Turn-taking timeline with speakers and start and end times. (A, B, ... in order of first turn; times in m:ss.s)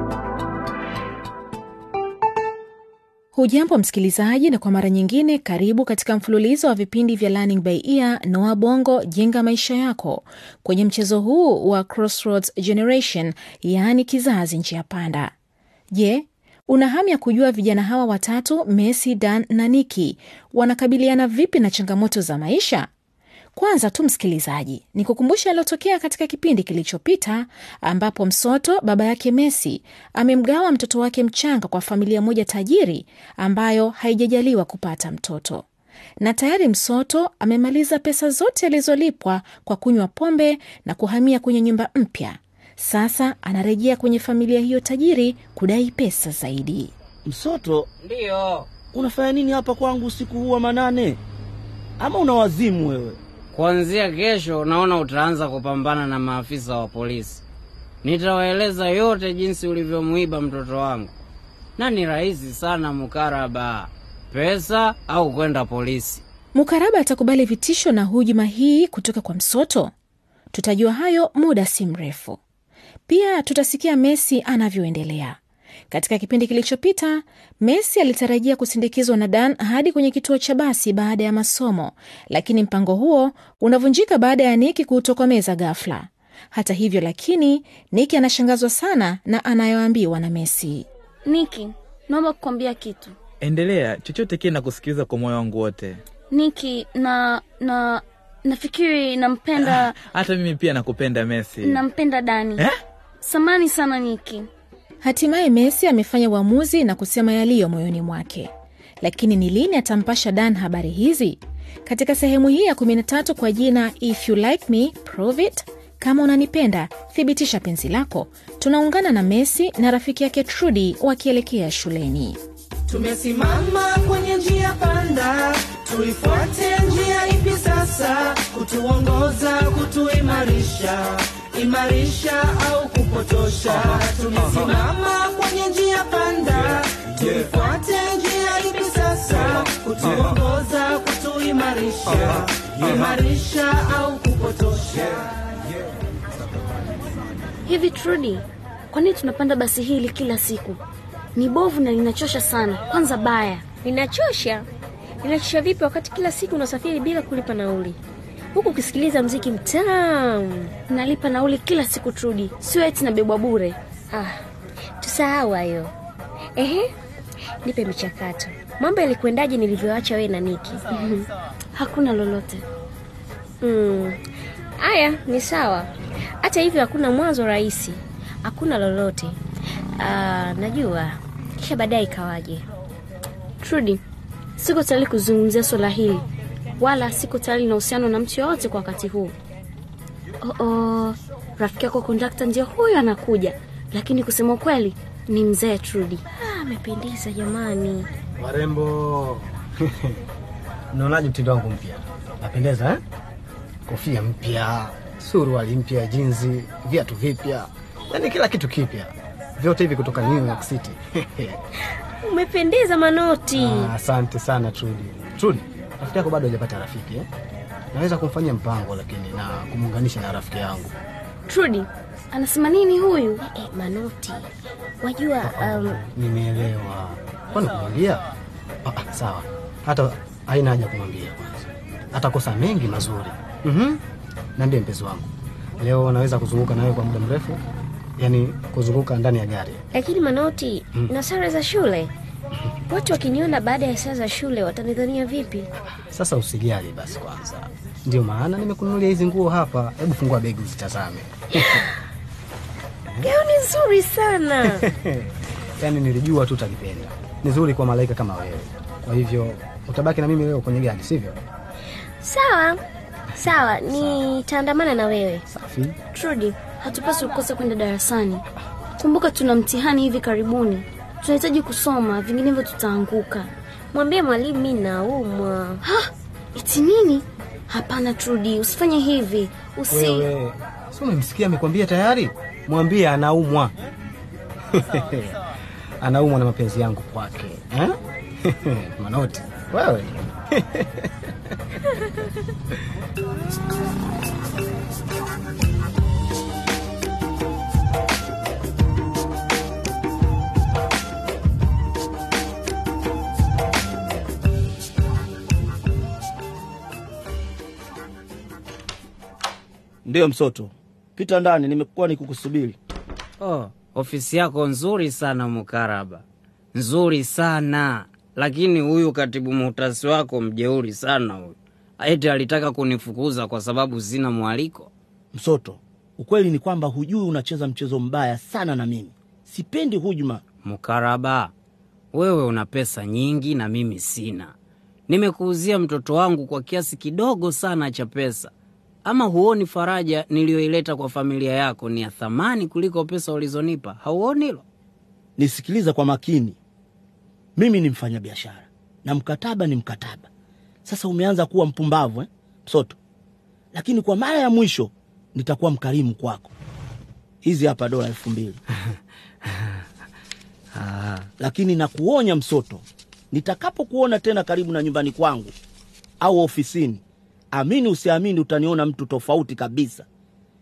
0:03.4-0:15.3 A
0:15.9-0:22.9 A
0:23.6-0:35.6 A
0:36.2-0:46.9 A
0:47.3-0:47.9 B
0:48.0-0:48.7 C
0:48.9-0:51.2 B
0:52.0-0:53.2 B
0:53.5-0:57.4 C
0:58.0-1:01.1 C
1:01.8-1:06.2 C
1:06.6-1:09.9 A
1:10.5-1:12.4 A
1:13.1-1:15.4 A
1:15.9-1:30.9 A
1:31.3-1:33.2 D
1:33.4-1:36.0 E
1:36.3-1:39.9 D
1:39.6-1:41.8 E
1:41.6-1:42.6 D
1:43.2-1:44.5 D
1:45.0-1:48.5 A
1:49.0-2:02.4 A
2:02.9-2:25.3 F
2:27.7-2:30.8 D
2:31.4-2:33.6 D
2:33.8-2:34.7 G
2:35.2-2:38.0 G
2:38.6-2:40.7 G
2:40.9-2:43.8 D
2:44.1-2:44.4 G
2:45.0-2:45.9 G
2:46.6-2:46.9 G
2:47.6-2:50.8 G
2:50.9-2:52.6 D
2:53.6-2:54.2 G
2:54.8-2:59.4 G
3:00.0-3:02.7 G
3:03.6-3:04.0 D
3:04.6-3:06.2 D
3:06.8-3:09.4 D
3:10.4-3:16.2 D
3:16.4-3:18.1 G
3:18.4-3:20.2 H
3:20.9-3:23.0 H
3:23.9-3:31.6 H
3:32.2-3:33.8 G
3:33.5-3:37.2 H
3:37.9-3:40.9 H
3:41.5-3:43.4 D
3:43.5-3:44.5 G
3:45.0-3:46.0 G
3:45.4-3:48.2 H
3:48.9-3:54.0 H
3:54.6-3:55.3 H
3:55.8-3:57.6 H
3:58.2-3:59.8 H
3:59.9-4:02.1 G
4:02.9-4:05.7 G
4:06.1-4:11.8 H
4:13.2-4:14.8 G
4:14.6-4:15.3 H
4:15.8-4:21.4 H
4:22.2-4:22.8 G
4:23.4-4:25.5 G
4:23.4-4:24.2 H
4:25.5-4:26.0 H
4:26.1-4:28.4 D
4:29.0-4:33.5 D
4:33.9-4:35.8 G
4:35.8-4:40.2 D
4:39.9-4:43.7 H
4:44.7-4:45.4 H
4:46.0-4:51.1 H
5:10.1-5:12.8 B
5:13.4-5:16.2 C
5:16.8-5:24.9 C
5:25.3-5:30.4 B
5:30.6-5:31.5 C
5:32.1-5:34.5 C
5:35.1-5:38.5 C
5:39.1-5:44.6 C
5:45.4-5:46.6 B
5:47.6-5:50.3 B
5:50.9-5:53.0 B
5:53.7-5:56.5 B
5:57.4-5:58.6 B
6:01.4-6:05.5 B
6:06.2-6:07.0 B
6:07.5-6:10.1 B